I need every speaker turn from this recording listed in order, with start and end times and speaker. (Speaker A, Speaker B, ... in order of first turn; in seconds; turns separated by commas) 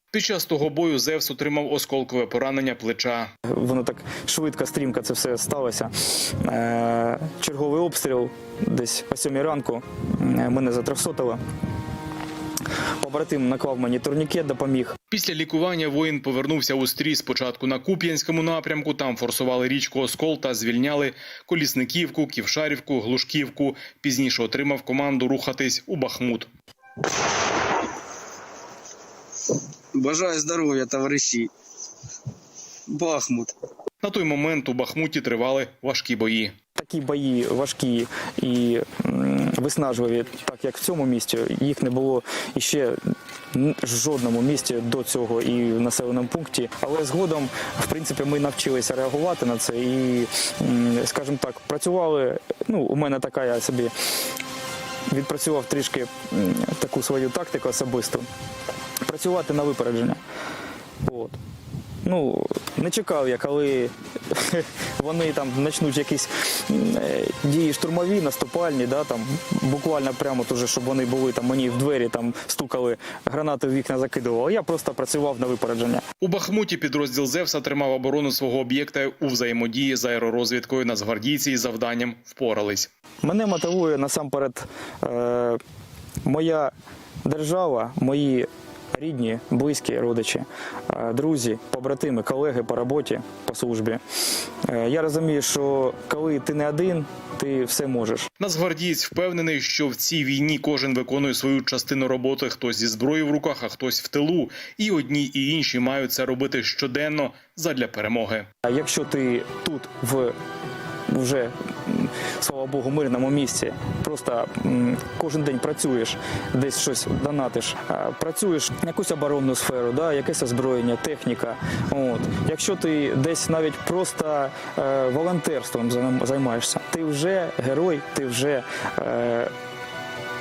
Speaker A: 0.1-3.3, Speaker B: 3.5-11.4, Speaker B: 13.0-14.9, Speaker A: 15.1-26.5, Speaker C: 29.9-31.5, Speaker C: 32.9-33.5, Speaker A: 34.0-36.5, Speaker B: 36.8-43.0, Speaker B: 43.5-53.9, Speaker B: 55.1-58.2, Speaker B: 59.0-60.2, Speaker B: 61.0-61.4, Speaker B: 62.0-76.0, Speaker A: 76.2-82.9, Speaker B: 83.2-85.6, Speaker B: 86.2-86.7, Speaker B: 87.2-94.0, Speaker B: 94.7-98.3, Speaker A: 98.4-108.5, Speaker B: 108.7-110.3, Speaker B: 111.1-129.5